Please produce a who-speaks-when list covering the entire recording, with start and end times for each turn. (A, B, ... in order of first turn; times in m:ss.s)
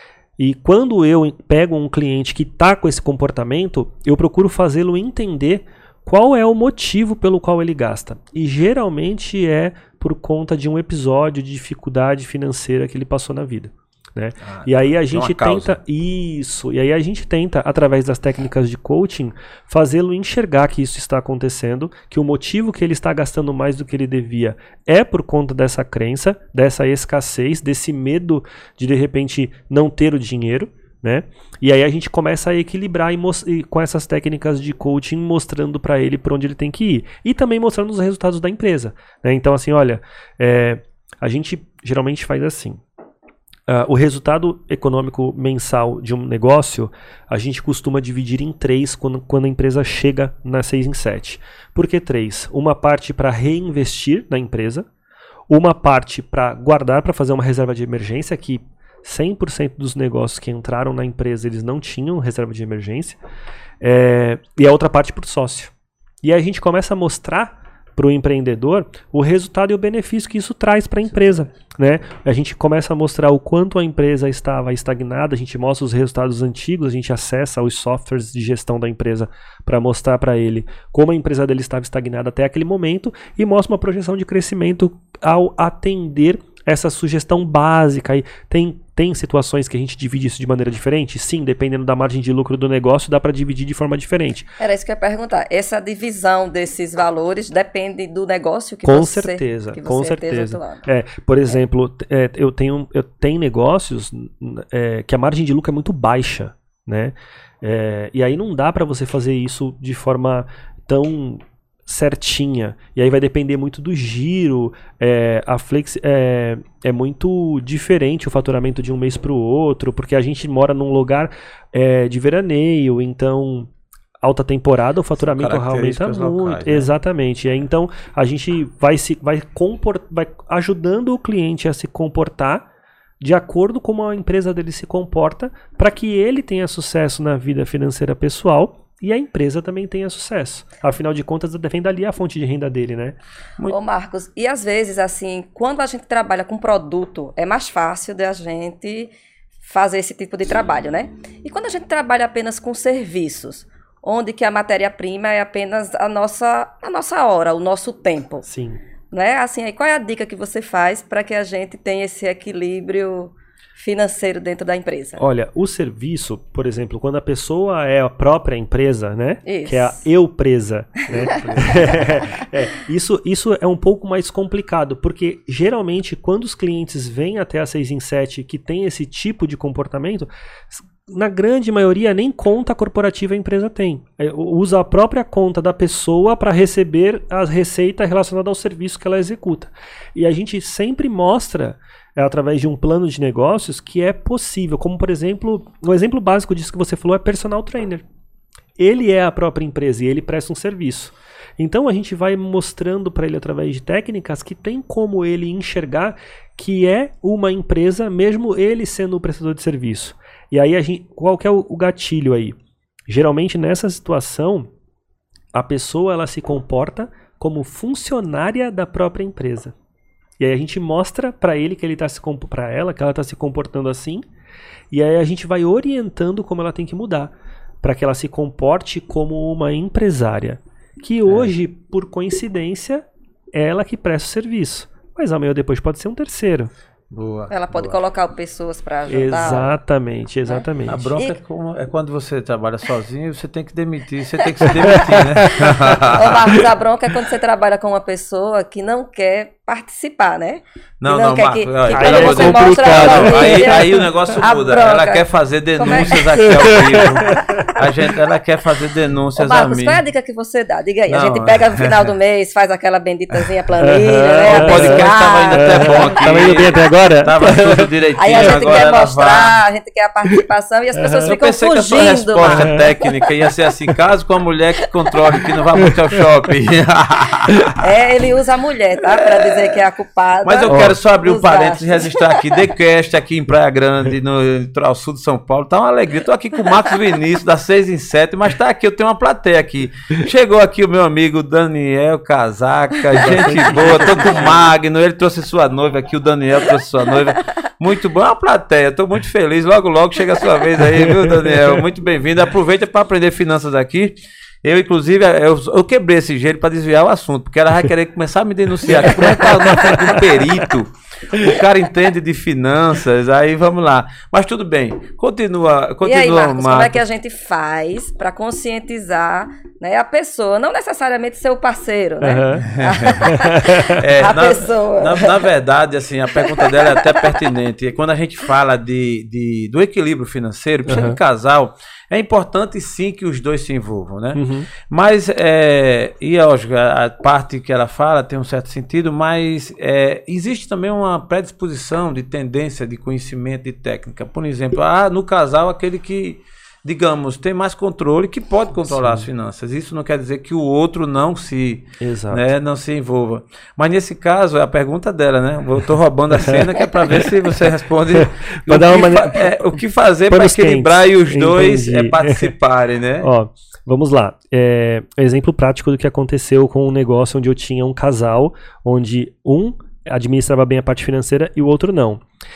0:00.4-0:42.8 A
0:14.4-0:15.8 B
0:43.7-0:54.9 A
0:55.5-1:03.2 A
1:03.8-1:05.7 A
1:06.2-1:34.5 A
1:11.1-1:11.4 B
1:34.6-1:40.8 C
1:38.8-2:03.7 A
2:04.2-2:12.7 A
2:05.2-2:06.9 B
2:13.2-2:23.2 A
2:23.7-2:38.4 C
2:38.4-2:38.8 A
2:39.1-2:45.3 C
2:45.2-3:18.0 A
2:49.4-2:50.0 C
2:51.1-2:52.3 B
2:51.4-2:51.9 C
3:18.8-3:32.6 A
3:33.1-3:34.7 A
3:35.5-3:39.7 A
3:40.4-3:44.2 A
3:44.9-3:56.7 A
3:51.3-3:51.5 B
3:57.1-3:58.0 B
3:57.5-3:59.8 C
3:59.1-4:01.2 A
4:00.9-4:06.4 B
4:04.6-4:06.6 A
4:06.1-4:17.8 C
4:11.0-4:20.0 B
4:11.9-4:14.1 A
4:16.4-4:17.8 A
4:19.4-4:26.5 C
4:21.1-4:22.0 B
4:23.8-4:27.9 A
4:24.5-4:29.6 B
4:28.2-4:33.1 C
4:30.9-4:31.3 A
4:31.2-4:37.7 B
4:32.5-4:32.8 A
4:35.8-4:36.3 A
4:37.5-4:37.8 A
4:37.8-4:42.7 C
4:40.4-5:17.0 B
4:40.6-4:41.0 A
4:53.2-4:54.5 C
4:53.2-4:54.6 A
5:01.0-5:01.8 A
5:08.9-5:10.4 A
5:16.0-5:25.5 C
5:22.2-5:22.6 A
5:22.6-5:23.3 B
5:23.2-5:24.0 A
5:23.9-6:03.3 B
5:26.3-5:27.4 C
5:30.8-5:31.2 A
5:34.3-5:34.7 A
5:48.9-5:49.3 A
5:52.0-5:52.5 A
5:56.4-5:56.7 A
5:58.1-5:59.5 A
6:00.3-6:02.5 A
6:03.2-6:12.2 A